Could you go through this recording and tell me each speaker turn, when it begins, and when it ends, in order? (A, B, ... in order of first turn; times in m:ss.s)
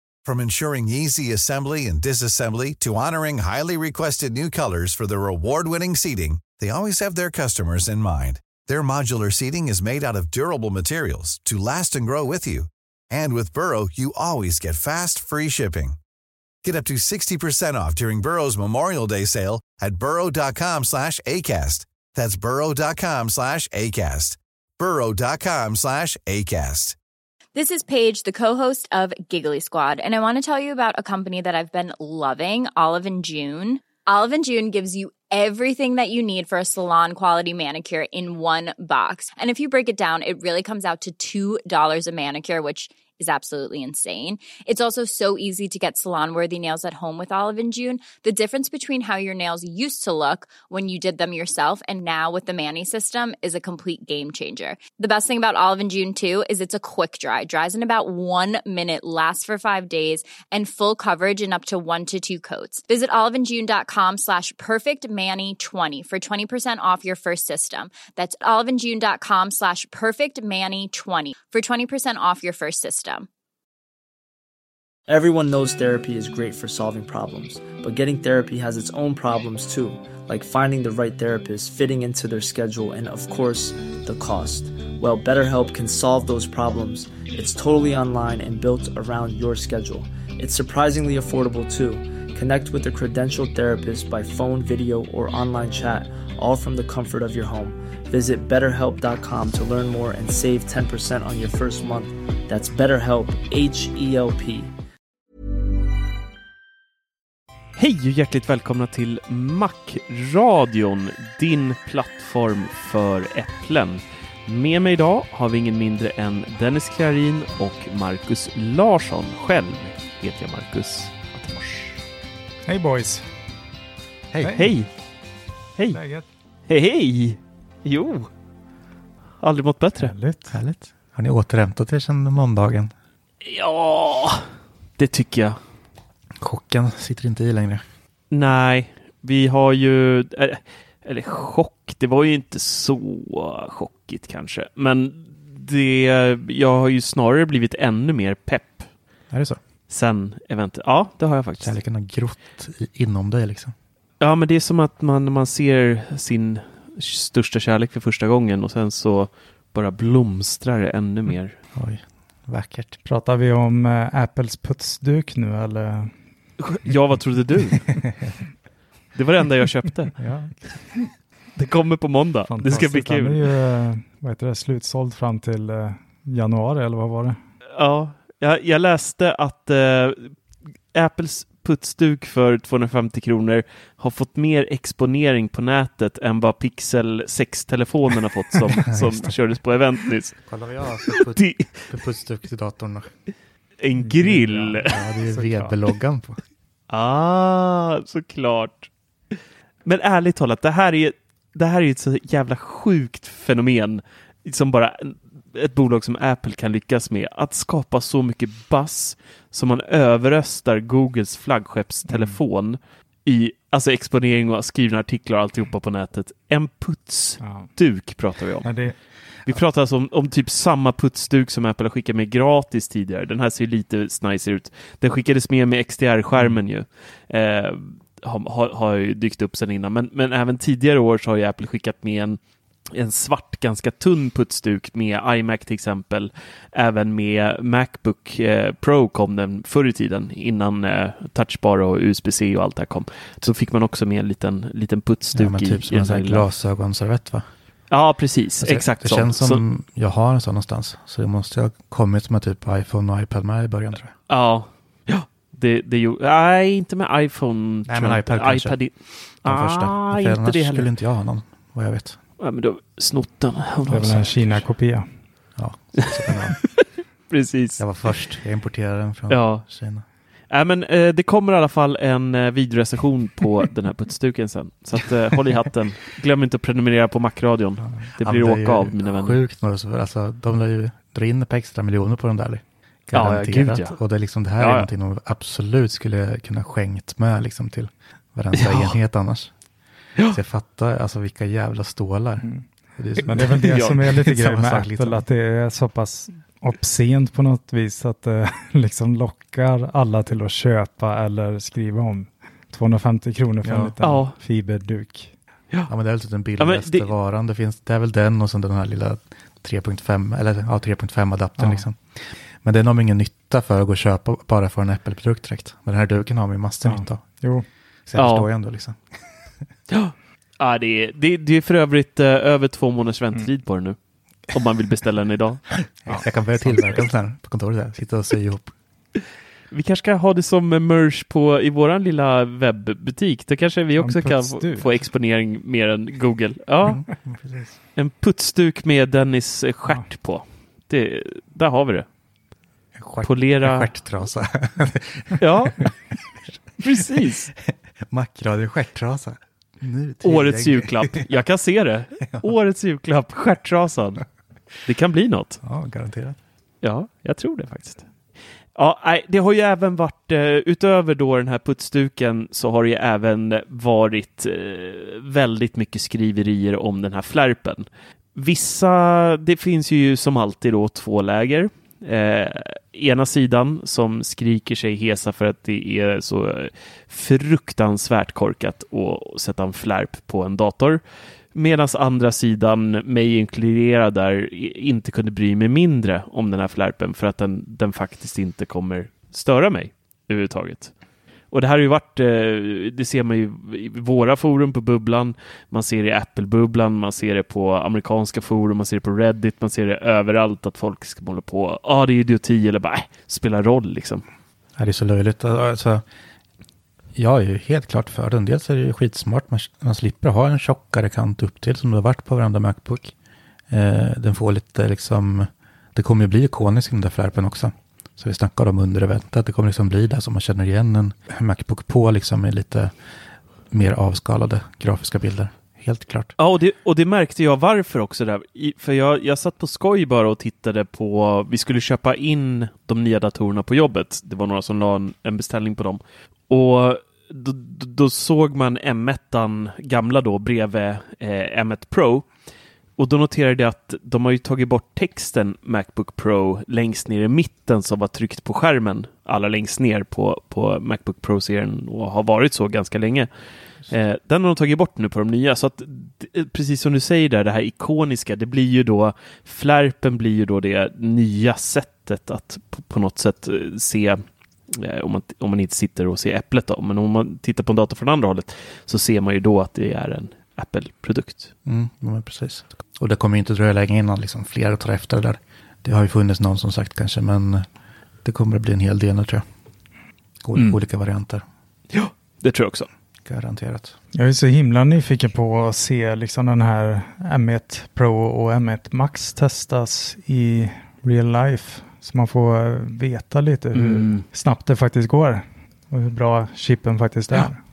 0:00.2-0:16.0 A
0:16.6-0:27.0 A
0:27.5-1:13.3 B
1:15.1-1:44.7 C
1:47.8-2:02.0 D
2:02.6-2:03.2 E
2:04.3-2:04.6 F
2:04.4-2:04.7 E
2:04.5-2:04.9 D
2:05.9-2:06.2 E
2:06.7-2:08.3 D
2:09.4-2:10.1 D
2:10.0-2:10.5 E
2:10.5-2:12.9 F
2:13.4-2:15.6 D
2:16.4-2:17.8 F
2:18.3-2:28.9 D
2:29.3-2:29.6 F
2:29.9-2:31.7 D
2:31.6-2:33.7 F
2:34.2-2:41.6 D
2:41.7-2:43.0 F
2:43.0-2:46.1 E
2:46.6-2:47.9 D
2:49.1-2:50.1 D
2:50.2-2:50.8 F
2:51.6-2:53.5 D
2:52.5-2:57.4 E
2:57.7-3:00.4 D
3:00.9-3:10.4 D
3:08.8-3:09.3 F
3:10.4-3:13.1 F
3:11.3-3:11.9 D
3:13.8-3:15.8 D
3:14.0-3:14.8 E
3:14.7-3:16.4 F
3:16.9-3:18.9 D
3:19.8-3:52.4 D
3:32.1-3:32.4 E
3:37.4-3:37.7 E
3:38.6-3:39.0 E
3:52.9-4:06.4 D
4:05.3-4:07.4 F
4:07.9-4:09.6 D
4:08.6-4:14.1 F
4:14.3-4:20.9 D
4:17.9-4:22.2 F
4:22.4-4:24.6 D
4:23.9-4:25.1 E
4:25.6-4:26.6 F
4:26.3-4:27.8 D
4:27.8-4:30.0 F
4:29.3-4:29.7 D
4:30.5-4:39.4 D
4:37.8-4:49.5 F
4:43.1-4:44.0 D
4:44.6-4:44.9 D
4:48.5-4:49.0 D
4:50.3-4:55.3 F
4:52.4-4:52.6 E
4:53.2-5:05.3 E
4:53.6-4:54.0 D
5:03.6-5:03.9 F
5:04.0-5:04.3 D
5:05.9-5:17.4 F
5:06.6-5:07.1 D
5:11.6-5:11.8 E
5:16.8-5:17.6 E
5:18.0-5:19.0 F
5:18.2-5:18.5 D
5:19.9-5:24.0 D
5:24.5-5:25.7 D
5:26.0-5:28.7 F
5:26.1-5:27.0 E
5:29.7-5:37.0 D
5:34.0-5:35.0 E
5:36.8-5:37.8 F
5:38.0-5:42.0 D
5:42.9-5:45.9 F
5:43.2-5:43.9 D
5:45.4-5:45.9 D
5:46.8-5:47.5 D
5:47.7-5:51.3 F
5:50.2-5:54.2 D
5:52.2-5:52.5 F
5:54.8-5:55.6 D
5:55.6-5:56.4 F
5:56.8-5:58.1 D
5:58.7-6:21.0 D
6:21.5-6:30.9 D
6:31.5-6:44.2 D
6:44.8-6:46.0 F
6:47.1-6:53.1 F
6:53.7-7:02.9 F
7:03.7-7:06.3 F
7:06.4-7:22.3 D
7:23.0-7:33.3 D
7:33.9-7:51.5 D
7:51.6-7:57.6 F
7:58.2-7:59.4 F
8:00.4-8:01.4 F
8:01.9-8:02.9 D
8:03.2-8:04.0 F
8:04.1-8:17.6 E
8:13.7-8:14.2 D